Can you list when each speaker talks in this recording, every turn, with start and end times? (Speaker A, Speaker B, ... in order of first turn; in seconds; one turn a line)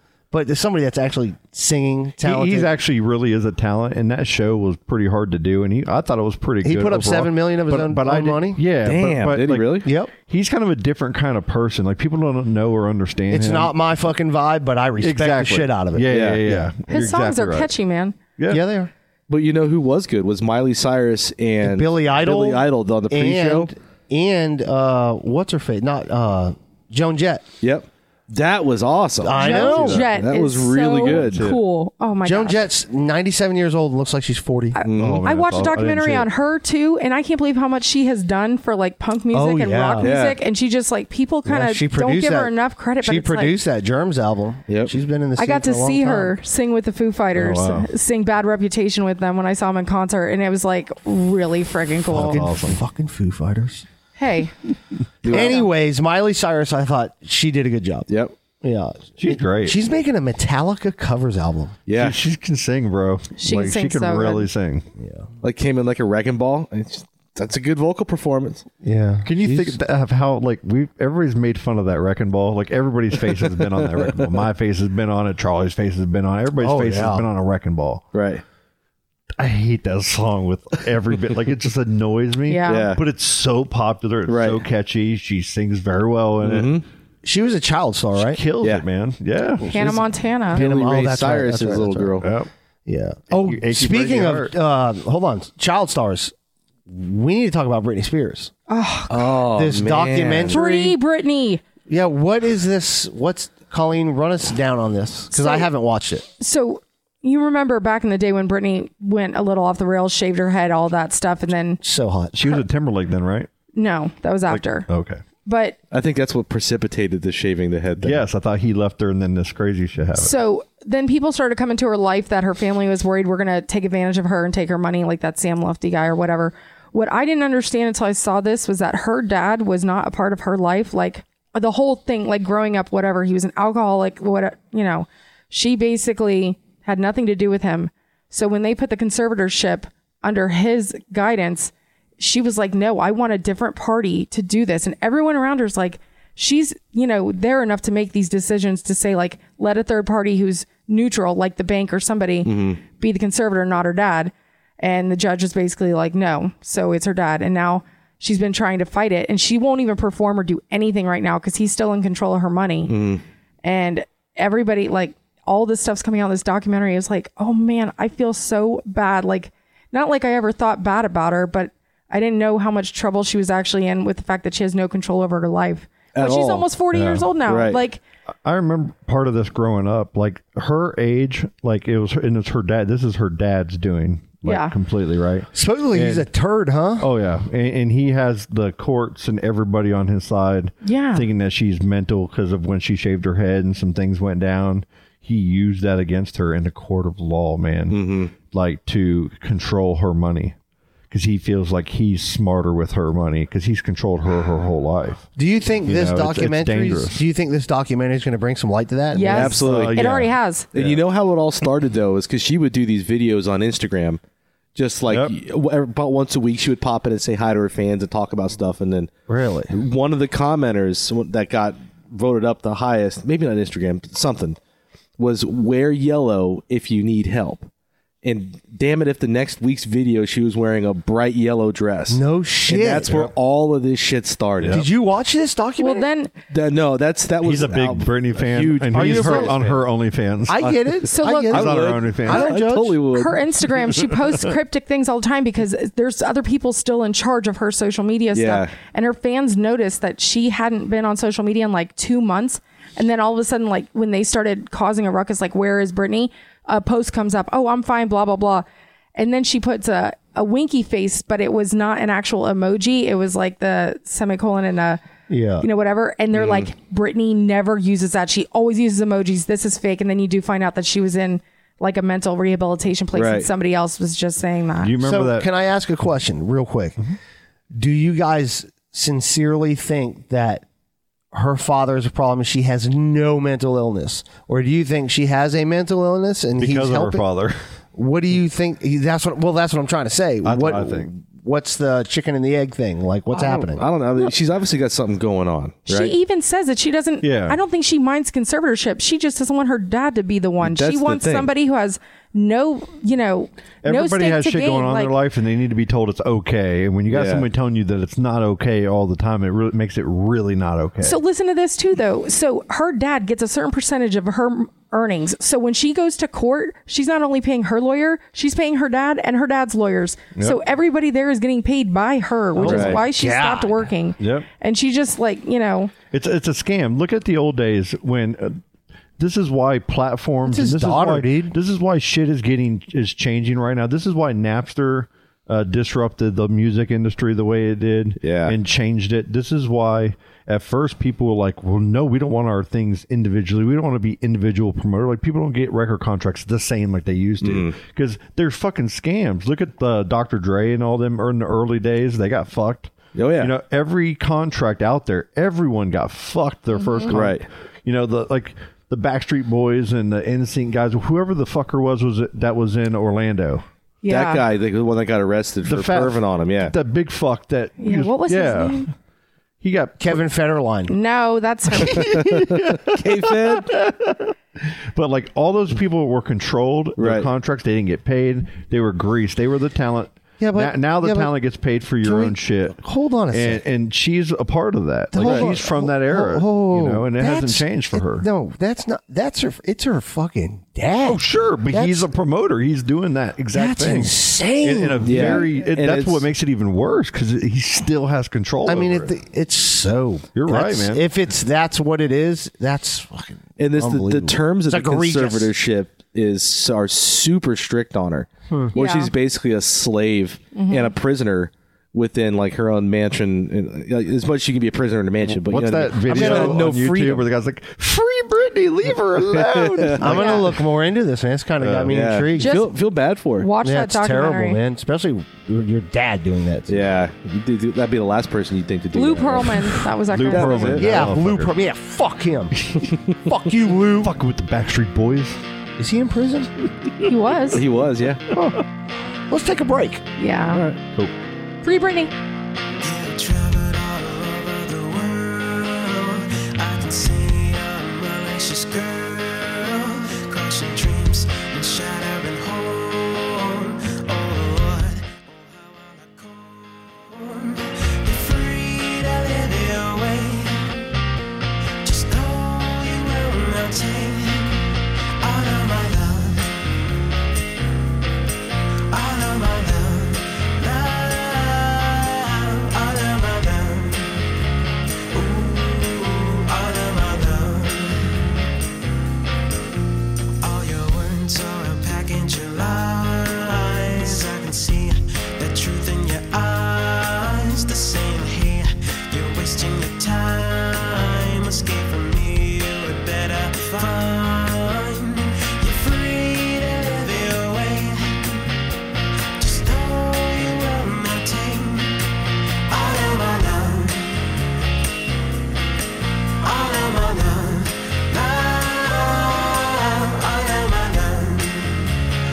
Speaker A: 0.3-2.7
Speaker B: 2.2-13.7
Speaker A: 6.6-8.6
Speaker C: 8.8-9.8
Speaker A: 9.8-10.1
Speaker A: 13.3-16.7
Speaker B: 15.0-17.7
Speaker C: 16.1-16.4
Speaker D: 16.9-18.2
Speaker B: 18.4-18.6
Speaker A: 18.5-18.9
Speaker C: 19.3-23.7
Speaker A: 21.6-27.4
Speaker C: 27.6-31.5
Speaker A: 29.2-30.0
Speaker D: 29.4-32.6
Speaker B: 31.1-31.6
Speaker A: 32.2-34.8
Speaker D: 34.7-43.5
Speaker C: 34.8-35.2
Speaker B: 34.9-36.3
Speaker A: 39.3-40.1
Speaker C: 40.0-40.4
Speaker A: 41.4-46.3
Speaker D: 45.4-52.4
Speaker B: 47.3-47.9
Speaker B: 52.1-52.8
Speaker A: 52.1-53.9
Speaker D: 54.2-54.5
Speaker C: 55.2-55.6
Speaker A: 55.3-58.1
Speaker D: 55.3-55.7
Speaker C: 58.1-58.3
Speaker A: 58.6-61.8
Speaker B: 59.2-59.8
Speaker C: 61.9-62.2
Speaker B: 61.9-64.9
Speaker D: 63.4-64.5
Speaker A: 65.0-65.3
Speaker C: 65.4-68.7
Speaker A: 68.8-69.8
Speaker B: 69.2-78.0
Speaker C: 73.3-74.3
Speaker A: 76.6-77.2
Speaker C: 78.1-78.4
Speaker B: 79.4-86.8
Speaker D: 82.5-82.9
Speaker C: 82.7-83.0
Speaker C: 84.3-84.6
Speaker C: 86.4-86.8
Speaker A: 87.2-88.4
Speaker B: 88.1-90.0
Speaker A: 89.6-90.0
Speaker D: 89.7-90.6
Speaker A: 90.5-92.2
Speaker C: 90.5-92.3
Speaker B: 92.2-92.5
Speaker A: 92.8-96.3
Speaker B: 93.3-94.5
Speaker A: 96.9-98.5
Speaker D: 98.7-99.1
Speaker C: 99.1-100.6
Speaker A: 99.3-100.9
Speaker D: 100.5-101.6
Speaker A: 101.9-106.2
Speaker D: 105.3-105.7
Speaker D: 106.4-111.8
Speaker A: 111.8-112.4
Speaker B: 112.3-113.5
Speaker D: 113.7-114.9
Speaker B: 114.5-115.2
Speaker D: 115.4-115.8
Speaker C: 115.9-118.2
Speaker B: 118.0-120.3
Speaker D: 120.2-163.0
Speaker C: 152.4-152.8
Speaker C: 162.9-163.2
Speaker D: 163.6-178.0
Speaker C: 176.1-176.7
Speaker B: 176.9-177.3
Speaker C: 177.4-177.8
Speaker B: 178.4-186.3
Speaker D: 184.4-184.7
Speaker A: 185.5-187.1
Speaker B: 187.0-200.6
Speaker D: 190.8-191.3
Speaker C: 197.9-198.3
Speaker B: 201.1-205.2
Speaker A: 205.3-209.6
Speaker B: 205.8-207.2
Speaker D: 209.1-210.7
Speaker C: 209.3-210.1
Speaker B: 209.6-211.0
Speaker C: 210.7-214.2
Speaker C: 214.8-219.1
Speaker B: 215.1-215.3
Speaker A: 219.3-219.7
Speaker C: 219.7-224.6
Speaker C: 225.2-227.7
Speaker C: 228.2-234.8
Speaker A: 232.1-233.2
Speaker B: 234.6-234.8
Speaker A: 234.7-236.1
Speaker D: 235.8-236.3
Speaker C: 236.5-239.8
Speaker B: 237.4-240.7
Speaker A: 238.9-239.6
Speaker A: 240.5-243.0
Speaker D: 241.1-241.7
Speaker B: 241.5-242.5
Speaker C: 241.5-243.9
Speaker D: 243.1-265.0
Speaker C: 248.3-248.7
Speaker A: 265.3-265.6
Speaker D: 265.6-274.9
Speaker C: 266.3-266.7
Speaker C: 273.1-273.5
Speaker B: 274.8-275.5
Speaker A: 275.0-277.0
Speaker A: 277.7-280.6
Speaker A: 281.3-287.2
Speaker B: 286.6-287.6
Speaker A: 287.9-293.8
Speaker B: 290.4-291.1
Speaker C: 293.3-296.1
Speaker D: 295.9-305.1
Speaker B: 297.2-297.6
Speaker C: 300.6-301.5
Speaker B: 303.8-311.2
Speaker C: 307.1-307.5
Speaker D: 311.0-325.9
Speaker A: 322.6-323.9
Speaker C: 322.6-323.0
Speaker B: 324.2-324.5
Speaker B: 326.1-328.6
Speaker B: 329.2-363.6
Speaker A: 330.4-331.6
Speaker C: 338.2-338.5
Speaker C: 347.4-347.7
Speaker C: 353.1-353.5
Speaker D: 356.8-357.1
Speaker C: 357.1-357.4
Speaker D: 364.0-364.4
Speaker C: 364.1-366.7
Speaker B: 365.6-368.9
Speaker D: 367.8-368.9
Speaker B: 369.6-370.2
Speaker A: 370.0-370.9
Speaker D: 370.9-372.2
Speaker B: 371.8-382.8
Speaker C: 372.1-373.7
Speaker C: 377.0-377.3
Speaker A: 380.4-381.3
Speaker A: 382.0-383.6
Speaker B: 383.3-388.2
Speaker A: 385.1-392.1
Speaker C: 385.2-385.5
Speaker B: 391.0-399.1
Speaker A: 393.5-395.5
Speaker C: 395.0-396.2
Speaker A: 398.6-405.5
Speaker B: 400.3-401.0
Speaker C: 403.6-417.2
Speaker A: 408.5-408.7
Speaker D: 408.7-409.1
Speaker D: 410.5-410.9
Speaker B: 415.2-420.4
Speaker A: 416.1-416.6
Speaker C: 419.3-420.1
Speaker A: 420.0-422.5
Speaker D: 420.1-420.4
Speaker B: 421.6-422.0
Speaker C: 421.9-423.5
Speaker D: 422.4-422.7
Speaker D: 423.4-424.6
Speaker A: 423.6-426.9
Speaker C: 426.7-429.7
Speaker D: 428.9-430.8
Speaker B: 430.1-431.5
Speaker C: 430.3-430.8
Speaker A: 430.7-432.6
Speaker A: 433.2-434.1
Speaker B: 434.0-435.4
Speaker A: 435.8-436.5
Speaker D: 437.0-437.6
Speaker C: 437.5-438.2
Speaker B: 438.3-438.6
Speaker A: 439.3-440.0
Speaker D: 440.2-440.6
Speaker B: 440.7-441.1
Speaker D: 441.6-442.1
Speaker E: 442.8-460.8
Speaker E: 461.8-466.6
Speaker E: 468.9-474.2
Speaker E: 475.1-478.2
Speaker E: 480.4-498.4
Speaker E: 499.4-502.0
Speaker E: 502.7-504.2
Speaker E: 506.4-511.9